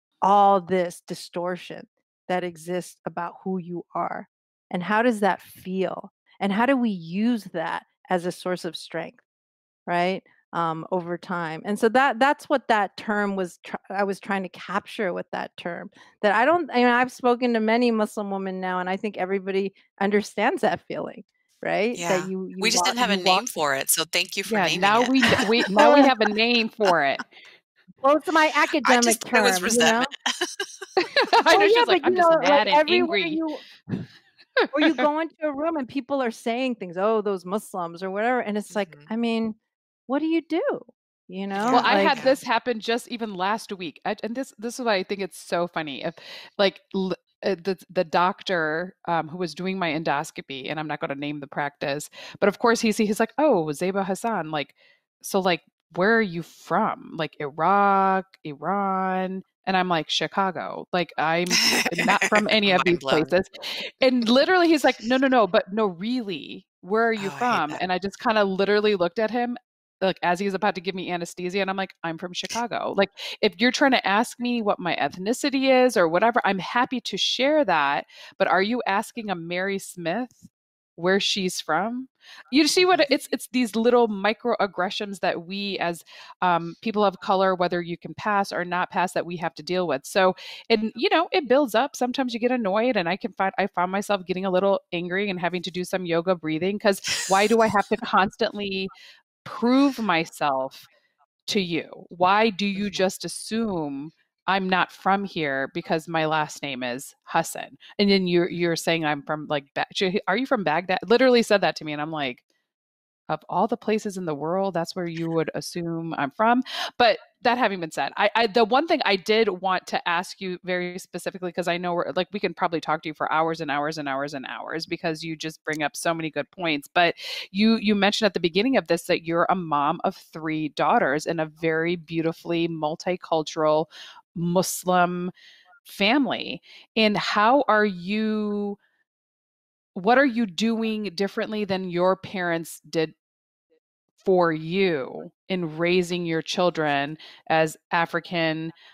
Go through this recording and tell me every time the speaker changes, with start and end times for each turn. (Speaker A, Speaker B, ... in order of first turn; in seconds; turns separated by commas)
Speaker A: 0.2-9.2, Speaker A: 9.9-23.5, Speaker B: 21.9-26.0, Speaker C: 24.5-27.2, Speaker A: 25.7-26.1, Speaker A: 28.0-30.1, Speaker B: 28.8-30.6, Speaker C: 31.0-34.0, Speaker A: 31.5-33.6, Speaker C: 34.6-35.0, Speaker A: 34.7-42.2, Speaker B: 38.7-39.1, Speaker B: 41.5-42.4, Speaker C: 41.7-98.9, Speaker B: 61.6-63.3, Speaker B: 67.2-67.8, Speaker B: 82.8-83.0, Speaker C: 99.4-100.9, Speaker C: 101.5-112.4, Speaker B: 102.8-103.0, Speaker C: 113.3-135.3, Speaker C: 135.8-138.8, Speaker C: 139.9-143.1, Speaker C: 144.2-148.7